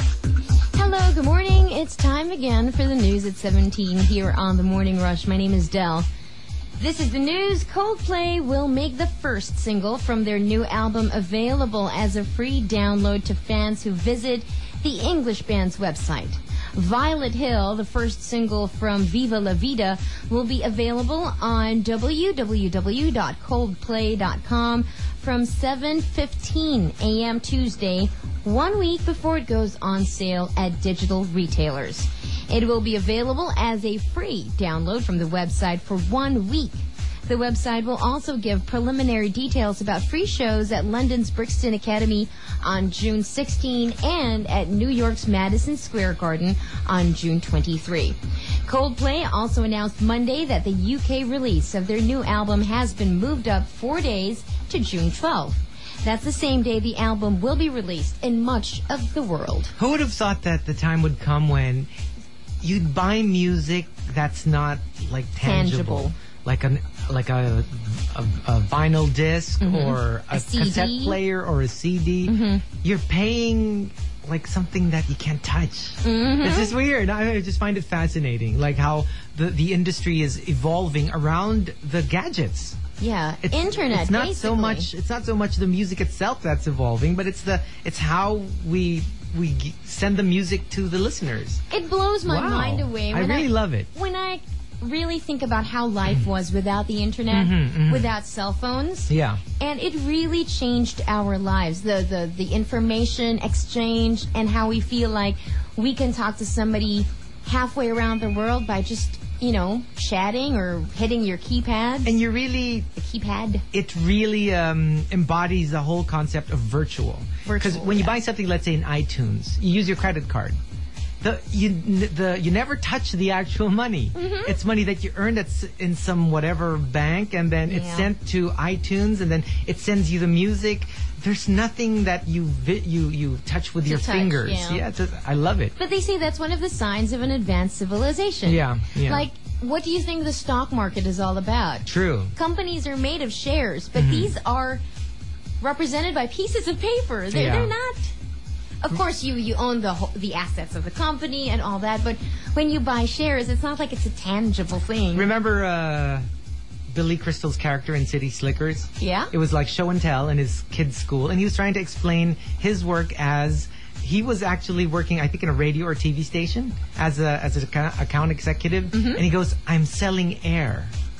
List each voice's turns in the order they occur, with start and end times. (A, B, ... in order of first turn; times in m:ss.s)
0:00.7-0:06.1 A
0:06.8-0:59.7 A
0:59.8-1:01.9 B
1:02.6-1:22.8 B
1:05.4-1:06.2 A
1:09.6-1:11.2 A
1:12.2-1:12.6 A
1:16.0-1:16.8 A
1:23.0-1:24.9 A
1:23.4-1:31.6 B
1:31.7-1:52.1 A
1:32.2-1:33.9 B
1:37.3-1:38.1 B
1:39.1-1:39.4 B
1:52.0-1:52.9 B
1:52.9-1:53.6 A
1:53.7-2:00.6 B
1:57.4-1:58.2 A
2:01.2-2:15.8 B
2:04.1-2:04.6 A
2:07.6-2:08.1 A
2:13.8-2:14.8 A
2:15.8-2:24.8 A
2:18.4-2:19.2 B
2:21.8-2:22.3 B
2:23.9-2:24.3 B
2:25.6-2:28.1 A
2:27.3-2:27.7 B
2:28.8-2:35.3 A
2:35.1-2:36.3 B
2:36.9-2:50.9 B
2:39.0-2:39.3 A
2:48.9-2:49.2 A